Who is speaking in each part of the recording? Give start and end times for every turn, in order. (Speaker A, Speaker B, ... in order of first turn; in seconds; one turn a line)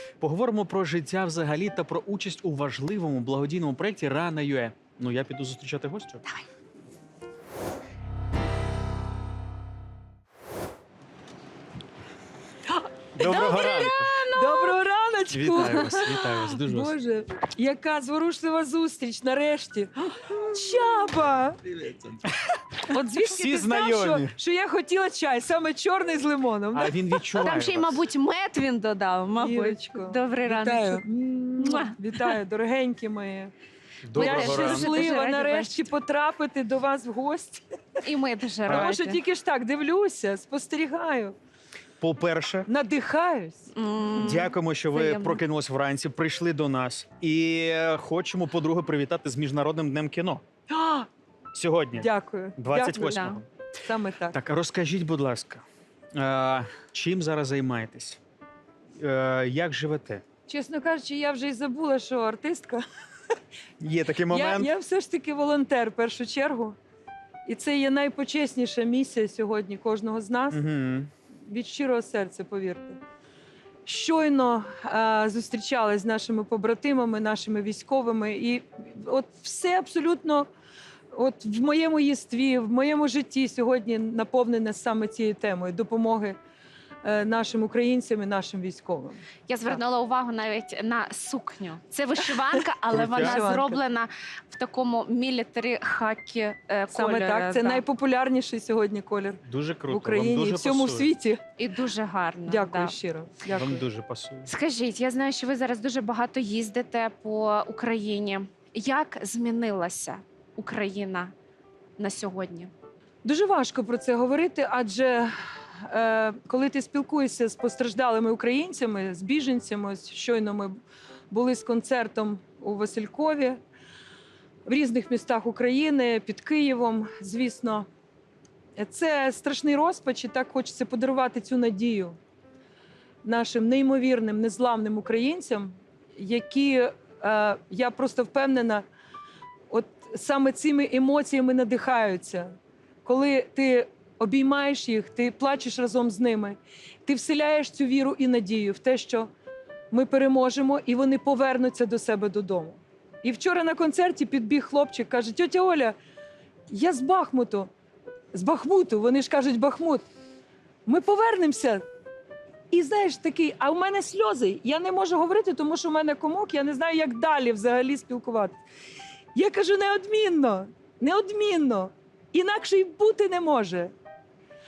Speaker A: 0.2-6.2
Speaker A: 13.2-14.1
Speaker B: 13.2-14.7
Speaker C: 13.4-21.8
Speaker A: 15.3-16.9
Speaker C: 22.9-27.1
Speaker A: 23.2-24.3
Speaker A: 26.7-28.0
Speaker B: 27.4-31.0
Speaker C: 29.4-33.5
Speaker B: 31.6-31.9
Speaker A: 34.0-35.1
Speaker B: 34.1-35.9
Speaker C: 34.1-37.6
Speaker B: 38.0-39.2
Speaker A: 38.7-38.9
Speaker C: 38.7-41.3
Speaker A: 42.0-42.7
Speaker C: 42.7-44.5
Speaker B: 43.7-45.4
Speaker A: 44.2-50.4
Speaker C: 50.7-51.1
Speaker A: 51.5-53.5
Speaker C: 52.0-54.4
Speaker B: 53.0-53.4
Speaker A: 54.3-55.6
Speaker A: 56.1-58.2
Speaker A: 59.0-60.2
Speaker C: 60.5-62.8
Speaker A: 63.8-64.7
Speaker C: 64.3-66.8
Speaker C: 67.5-70.6
Speaker A: 70.5-71.1
Speaker C: 71.5-73.0
Speaker C: 73.8-80.5
Speaker C: 81.1-86.4
Speaker C: 87.0-89.8
Speaker B: 89.5-97.8
Speaker A: 92.9-93.4
Speaker C: 92.9-93.8
Speaker C: 96.9-101.4
Speaker A: 99.5-101.1
Speaker B: 101.6-102.9
Speaker C: 102.5-103.8
Speaker A: 103.5-104.5
Speaker B: 104.5-111.3
Speaker B: 112.0-112.7
Speaker C: 113.2-115.3
Speaker C: 115.8-120.8
Speaker C: 121.3-123.6
Speaker C: 124.7-127.9
Speaker C: 128.8-132.2
Speaker C: 133.2-138.8
Speaker C: 139.7-142.5
Speaker C: 143.1-149.3
Speaker C: 149.9-155.9
Speaker C: 156.7-157.7
Speaker C: 158.3-160.0
Speaker C: 160.9-161.8
Speaker C: 162.7-168.6
Speaker C: 169.3-173.9